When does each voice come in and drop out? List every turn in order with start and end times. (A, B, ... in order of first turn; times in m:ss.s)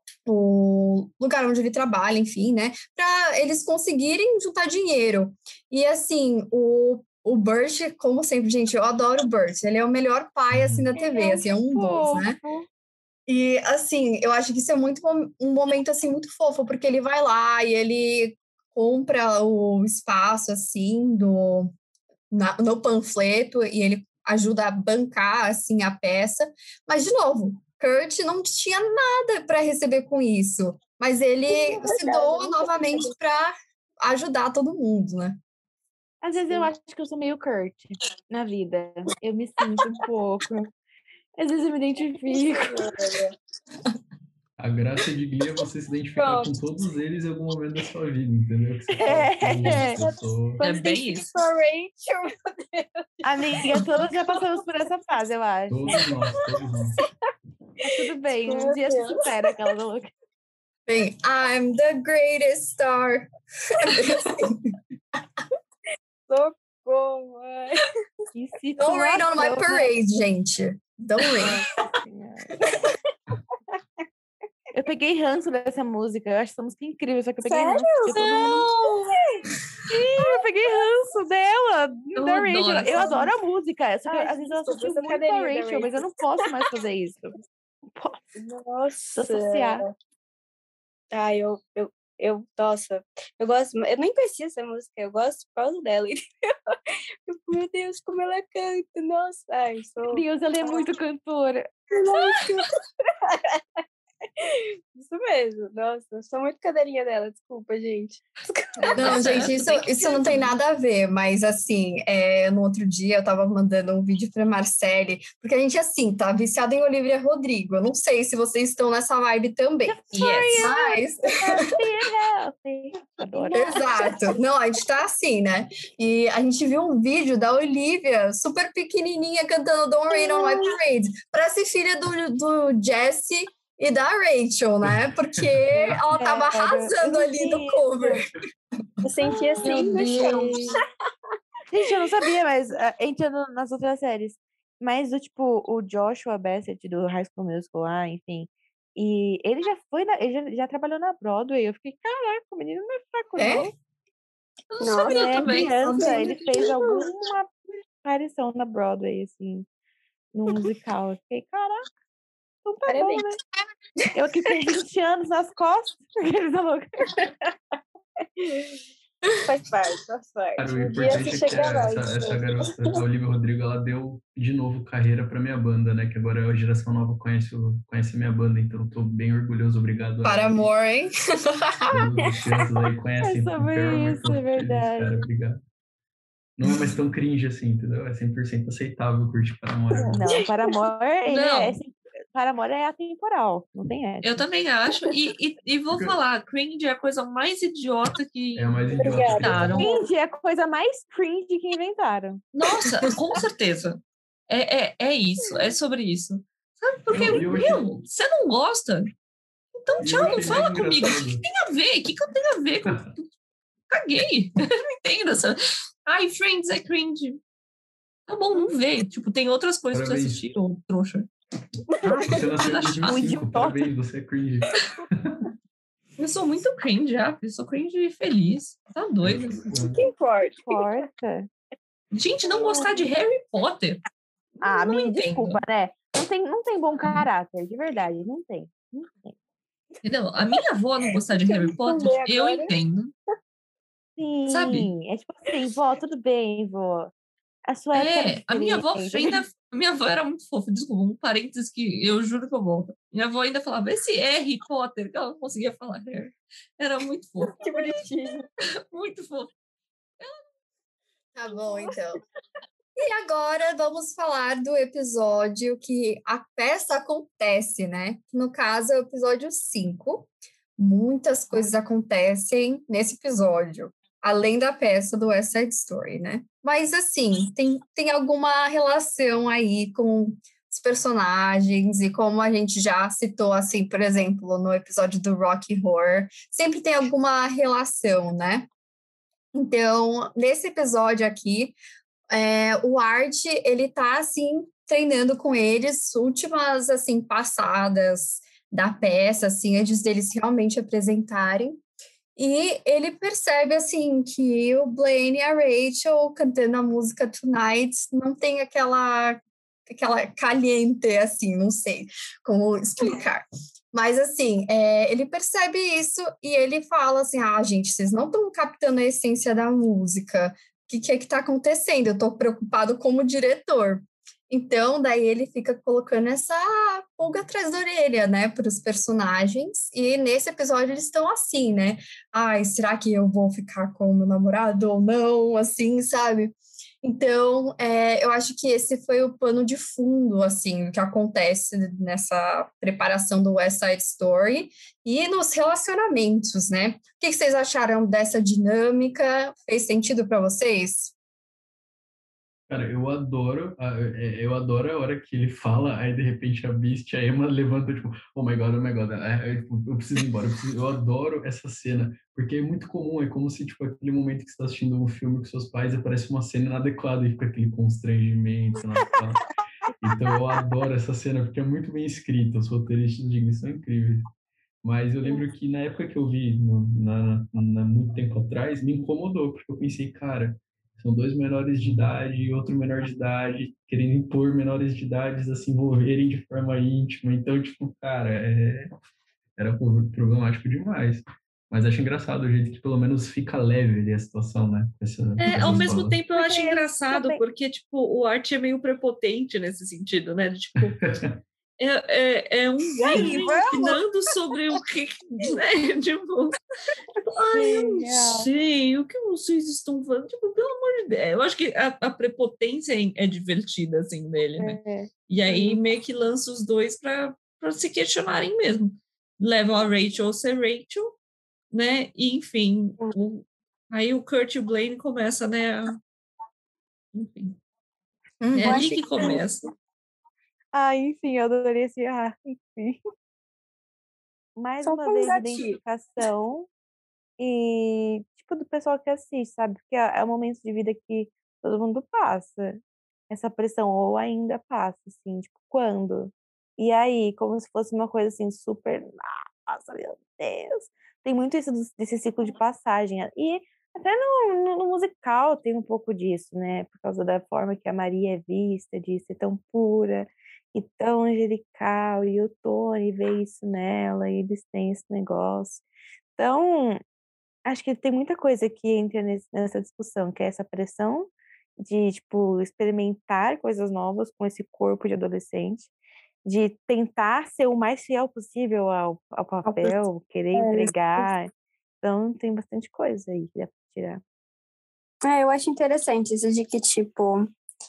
0:00.2-0:12.3 A
0:10.5-0:10.8 B
0:11.0-0:12.6 C
0:13.3-0:21.7 A
0:22.3-0:35.4 A
0:31.5-0:33.1 D
0:36.2-0:40.7 C
0:41.4-0:42.8 C
0:42.4-0:43.3 D
0:44.6-0:50.6 B
0:46.2-0:46.5 D
0:49.0-0:50.0 C
0:49.6-0:54.2 D
0:50.6-0:51.3 E
0:53.2-0:56.0 C
0:55.7-0:57.0 B
0:55.9-0:57.1 D
0:57.8-1:00.1 C
0:58.4-0:59.1 D
1:00.9-1:04.7 A
1:06.3-1:08.0 D
1:08.3-1:09.9 C
1:08.8-1:11.5 A
1:11.5-1:12.6 C
1:12.7-1:12.9 D
1:14.7-1:18.7 C
1:17.4-1:18.6 D
1:18.1-1:19.1 E
1:19.1-1:19.5 D
1:20.1-1:27.4 C
1:22.2-1:23.1 E
1:22.9-1:23.3 D
1:24.0-1:26.0 D
1:27.9-1:28.2 C
1:28.4-1:29.9 D
1:29.1-1:29.8 C
1:31.1-1:40.8 D
1:40.1-1:41.7 C
1:41.9-1:43.8 D
1:44.4-1:49.6 D
1:48.8-1:50.0 E
1:48.9-2:01.2 A
1:59.9-2:03.8 C
2:00.1-2:00.7 E
2:03.4-2:04.1 D
2:03.5-2:18.2 A
2:14.8-2:16.0 B
2:16.1-2:18.2 C
2:19.0-2:20.7 D
2:19.6-2:20.6 C
2:21.7-2:33.7 C
2:33.4-2:33.7 A
2:34.7-2:36.2 E
2:34.8-2:37.0 D
2:35.0-2:39.6 C
2:40.3-2:41.8 C
2:42.6-2:43.4 C
2:42.9-2:43.3 D
2:44.1-2:47.2 C
2:49.4-2:53.0 D
2:50.6-3:00.7 B
3:00.2-3:02.1 A
3:01.9-3:05.6 B
3:03.2-3:05.1 C
3:06.6-3:10.2 B
3:10.1-3:14.4 C
3:11.3-3:11.8 E
3:14.2-3:19.9 E
3:15.9-3:16.2 B
3:18.6-3:19.8 B
3:19.0-3:20.0 D
3:19.8-3:22.4 C
3:22.5-3:29.1 E
3:27.1-3:28.0 B
3:29.7-3:33.3 E
3:30.0-3:31.4 B
3:33.9-3:37.4 E
3:38.3-3:41.3 E
3:39.9-3:40.4 B
3:42.0-3:45.5 B
3:42.2-3:43.2 E
3:43.0-3:43.9 C
3:46.2-3:49.7 E
3:49.2-3:50.0 B
3:49.7-3:50.8 D
3:50.6-3:51.5 C
3:52.1-3:54.0 E
3:52.5-3:52.9 D
3:54.6-3:59.3 C
3:54.8-3:55.6 E
4:00.0-4:03.1 E
4:01.4-4:02.7 D
4:04.2-4:07.1 C
4:04.5-4:04.9 E
4:07.7-4:09.3 C
4:07.9-4:18.0 E
4:17.4-4:18.4 D
4:18.9-4:19.5 E
4:21.3-4:22.2 A
4:23.0-4:48.7 A
4:49.5-4:51.8 A
4:52.3-5:01.8 A
5:02.4-5:51.1 A
5:52.7-6:09.4 B
6:10.0-6:14.3 B
6:14.8-6:28.9 B
6:29.6-6:36.2 B
6:35.4-6:40.9 E
6:36.3-6:37.4 C
6:40.8-6:41.4 B
6:41.8-6:46.6 E
6:43.0-6:44.0 D
6:43.1-6:43.5 C
6:47.3-7:01.2 E
6:47.5-6:48.5 C
6:54.6-6:55.1 C
6:55.5-6:55.8 D
7:01.7-7:06.0 E
7:07.1-7:07.6 E
7:08.4-7:08.9 A
7:08.6-7:09.7 D
7:08.6-7:09.7 E
7:10.7-7:13.0 C
7:14.6-7:16.7 C
7:14.8-7:15.8 D
7:17.4-7:45.8 C
7:46.4-7:47.0 C
7:47.6-7:55.9 C
7:56.4-8:01.5 C
7:59.6-8:00.0 D
8:00.5-8:01.3 D
8:02.0-8:04.2 C
8:05.2-8:07.5 D